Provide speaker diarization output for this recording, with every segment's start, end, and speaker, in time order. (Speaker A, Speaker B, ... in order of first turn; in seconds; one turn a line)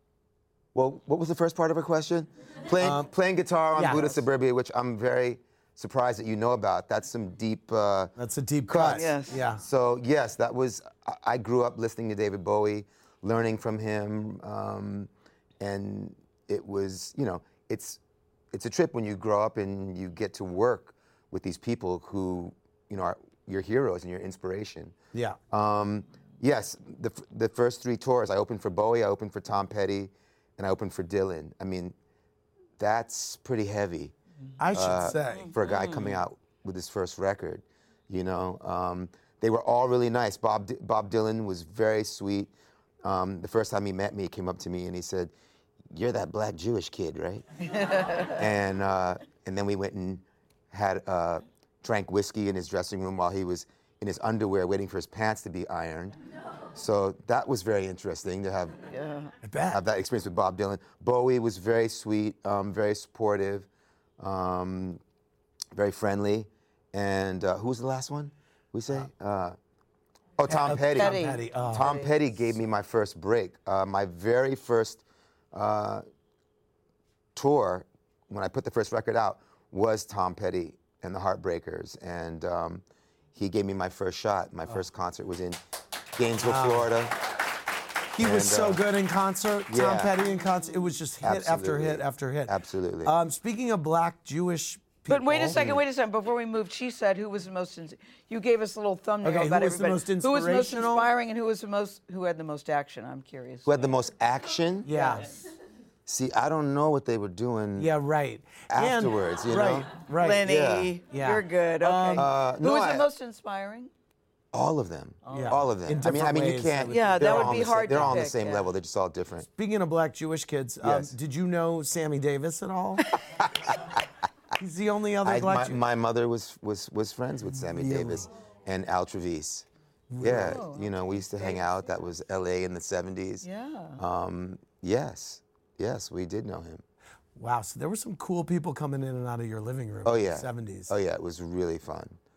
Speaker A: 0.7-8.1
Speaker B: 2.8-3.1
Speaker B: 3.7-4.2
Speaker B: 8.2-9.6
Speaker A: 8.7-18.0
Speaker C: 8.9-9.4
Speaker A: 18.5-24.9
Speaker A: 25.5-31.9
Speaker A: 32.8-34.1
Speaker B: 34.6-35.5
Speaker A: 34.7-42.5
Speaker C: 35.0-36.1
Speaker A: 43.0-45.3
Speaker A: 45.9-47.5
Speaker A: 48.1-56.2
Speaker A: 56.7-58.8
Speaker C: 58.9-59.3
Speaker B: 59.4-59.8
Speaker A: 59.7-63.7
Speaker A: 64.2-65.0
Speaker A: 65.7-69.6
Speaker A: 70.4-75.0
Speaker B: 70.5-71.9
Speaker C: 70.5-72.1
Speaker A: 75.5-76.0
Speaker A: 77.3-82.8
Speaker A: 83.3-85.6
Speaker A: 86.1-87.2
Speaker B: 86.4-86.9
Speaker B: 88.1-95.8
Speaker A: 88.2-88.8
Speaker A: 89.7-90.2
Speaker A: 91.2-93.1
Speaker C: 95.1-103.8
Speaker A: 95.5-95.8
Speaker B: 99.2-101.1
Speaker A: 103.6-104.9
Speaker B: 104.8-105.3
Speaker A: 106.0-107.9
Speaker B: 107.8-110.4
Speaker A: 108.7-110.9
Speaker C: 110.2-113.9
Speaker B: 111.1-112.3
Speaker A: 112.1-113.1
Speaker A: 114.5-119.5
Speaker C: 115.2-115.6
Speaker B: 115.3-118.2
Speaker C: 116.9-118.7
Speaker B: 119.5-123.1
Speaker A: 120.8-121.1
Speaker A: 123.3-124.0
Speaker B: 124.6-125.8
Speaker A: 125.2-129.7
Speaker B: 127.6-128.3
Speaker B: 130.1-130.6
Speaker A: 130.2-133.4
Speaker C: 130.3-131.6
Speaker C: 133.4-134.0
Speaker A: 134.0-136.8
Speaker B: 137.3-140.9
Speaker A: 140.0-142.2